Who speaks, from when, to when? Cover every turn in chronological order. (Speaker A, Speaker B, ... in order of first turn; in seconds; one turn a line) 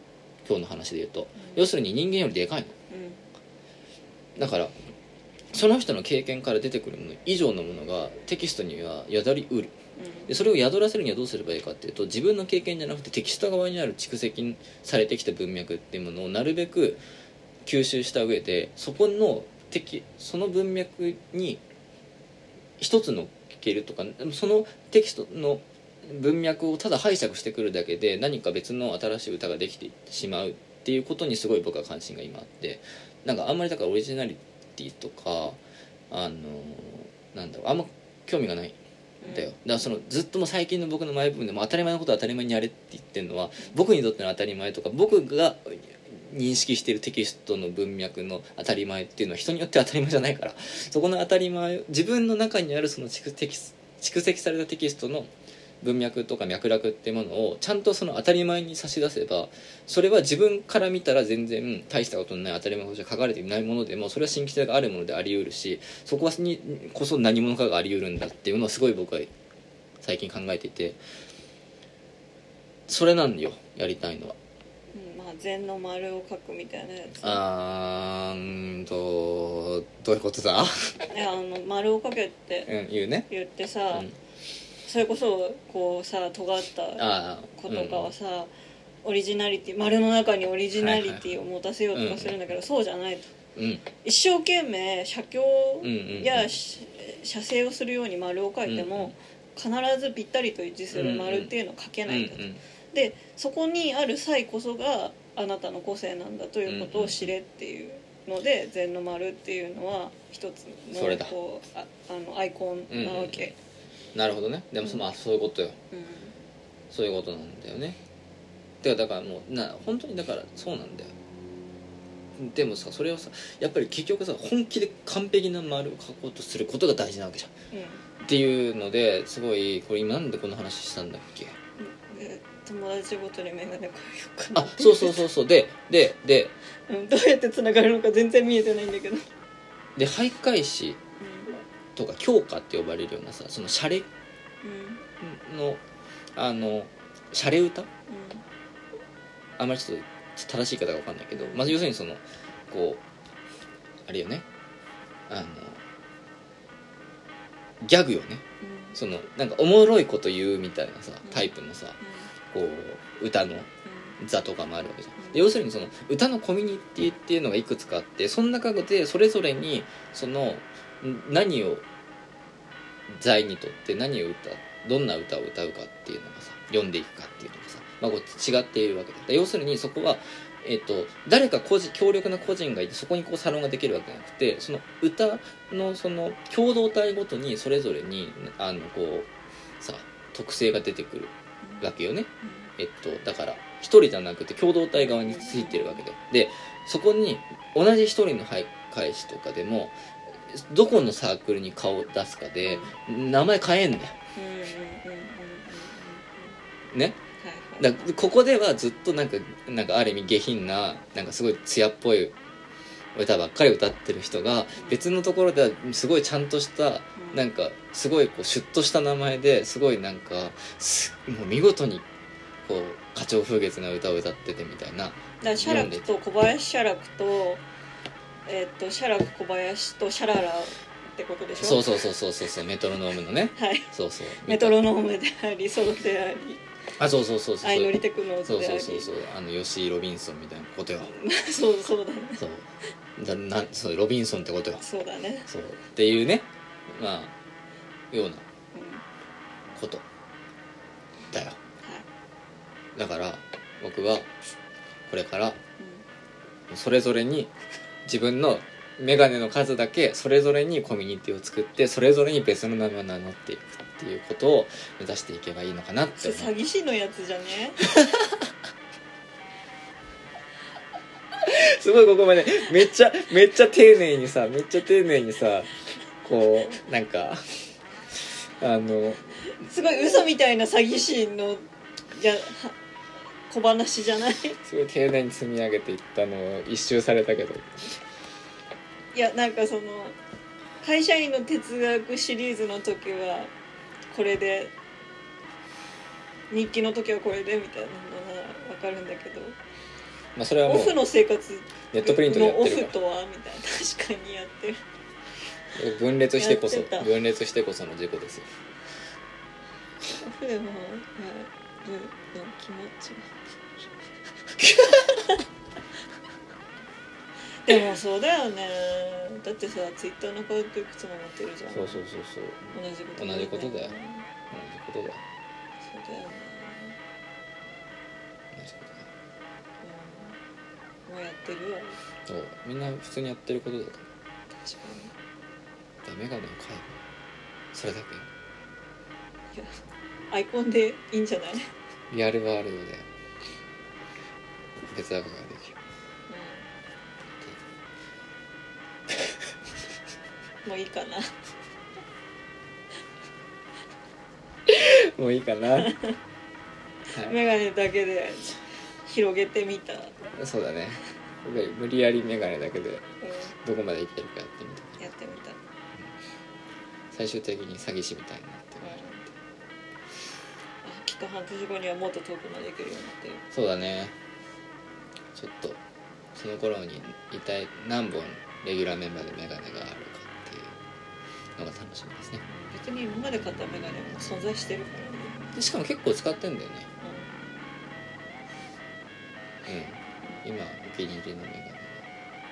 Speaker A: 0.4-2.7
Speaker B: 1.4-1.7
Speaker B: 2.9-3.2
Speaker A: 4.3-4.7
Speaker A: 5.5-9.7
Speaker B: 9.9-10.3
Speaker A: 10.3-17.0
Speaker A: 17.6-21.6
Speaker A: 22.8-69.3
Speaker B: 39.2-39.5
Speaker A: 70.0-71.0
Speaker A: 72.9-74.4
Speaker B: 74.9-77.4
Speaker A: 77.2-81.0
Speaker B: 81.1-82.7
Speaker A: 82.7-83.3
Speaker B: 83.3-84.1
Speaker B: 84.8-87.0
Speaker A: 87.0-88.1
Speaker B: 87.6-88.5
Speaker B: 89.0-93.3
Speaker A: 90.7-91.2
Speaker A: 91.9-92.4
Speaker A: 93.5-93.9
Speaker B: 94.0-113.5
Speaker A: 95.8-96.5
Speaker A: 98.7-99.1
Speaker A: 100.9-101.5
Speaker A: 102.1-102.6
Speaker A: 106.7-107.3
Speaker A: 110.9-111.3
Speaker A: 112.9-113.5
Speaker A: 114.1-115.8
Speaker B: 115.9-116.3
Speaker A: 116.9-118.0
Speaker A: 118.8-121.1
Speaker A: 122.4-127.5
Speaker B: 127.7-128.0
Speaker A: 128.2-131.6
Speaker B: 131.8-135.2
Speaker A: 134.5-136.5
Speaker B: 136.9-139.2
Speaker A: 139.9-141.0
Speaker B: 141.2-141.6
Speaker A: 141.9-144.1
Speaker B: 144.6-145.0
Speaker A: 145.2-145.8
Speaker A: 146.3-147.9
Speaker B: 148.1-148.4
Speaker A: 149.6-153.0
Speaker B: 151.3-151.8
Speaker A: 154.1-154.4
Speaker A: 155.3-155.8
Speaker A: 157.8-158.4
Speaker B: 158.6-159.0
Speaker A: 158.9-162.0
Speaker B: 161.2-162.3
Speaker A: 162.5-171.8
Speaker B: 163.8-164.1
Speaker B: 165.2-165.5
Speaker A: 173.1-199.9
Speaker B: 191.6-191.9
Speaker B: 192.4-192.7
Speaker B: 194.9-196.0
Speaker A: 200.5-204.2
Speaker B: 202.6-202.9
Speaker B: 204.3-206.6
Speaker A: 206.9-207.2
Speaker B: 207.4-208.1
Speaker A: 207.8-212.3
Speaker A: 213.1-222.0
Speaker B: 217.2-217.4
Speaker A: 222.6-226.1
Speaker B: 225.4-227.6
Speaker B: 228.4-231.9
Speaker A: 231.6-234.9
Speaker B: 233.6-233.9
Speaker B: 234.4-236.6
Speaker A: 237.0-241.1
Speaker B: 237.6-239.1
Speaker B: 241.0-242.4
Speaker A: 242.4-244.8
Speaker B: 244.8-245.5
Speaker A: 245.5-247.3
Speaker A: 248.1-248.4
Speaker B: 248.7-249.0
Speaker A: 249.7-250.0
Speaker A: 251.3-251.6
Speaker A: 252.9-254.3
Speaker A: 255.1-255.6
Speaker B: 255.8-256.0
Speaker A: 256.7-257.5
Speaker A: 258.1-266.5
Speaker B: 266.1-267.9
Speaker A: 267.8-268.5
Speaker A: 271.4-277.4
Speaker A: 278.1-279.7
Speaker B: 279.5-282.8
Speaker B: 283.5-284.6
Speaker A: 284.6-288.0
Speaker B: 289.1-290.2
Speaker B: 290.8-293.5
Speaker B: 294.1-294.7
Speaker B: 296.5-299.6
Speaker A: 300.3-301.0
Speaker B: 300.6-304.8
Speaker A: 301.9-302.9
Speaker A: 305.7-308.5
Speaker B: 306.4-307.1
Speaker B: 310.1-313.3
Speaker A: 314.6-315.2
Speaker B: 317.6-322.0
Speaker A: 321.7-323.9
Speaker B: 322.7-324.2
Speaker A: 324.5-325.2
Speaker B: 325.8-327.0
Speaker A: 328.5-329.1
Speaker B: 329.8-330.4
Speaker B: 331.1-332.0
Speaker A: 332.3-334.1
Speaker B: 334.6-335.1
Speaker A: 336.0-337.0
Speaker A: 337.7-338.3
Speaker B: 340.3-341.7
Speaker A: 342.1-343.1
Speaker A: 344.8-345.8
Speaker B: 346.3-346.7
Speaker B: 350.6-351.3
Speaker A: 354.7-356.0
Speaker B: 355.8-356.1
Speaker A: 357.1-357.4
Speaker B: 357.2-360.1
Speaker A: 360.3-363.0
Speaker B: 363.2-363.5
Speaker A: 363.6-365.0
Speaker B: 365.0-365.6
Speaker A: 367.1-369.3
Speaker B: 368.8-369.2
Speaker B: 370.8-373.4
Speaker A: 373.5-374.1
Speaker A: 375.3-375.8
Speaker A: 376.3-380.8
Speaker A: 381.6-382.4
Speaker B: 382.5-385.4
Speaker A: 385.5-386.9
Speaker B: 387.0-387.4
Speaker A: 389.6-392.1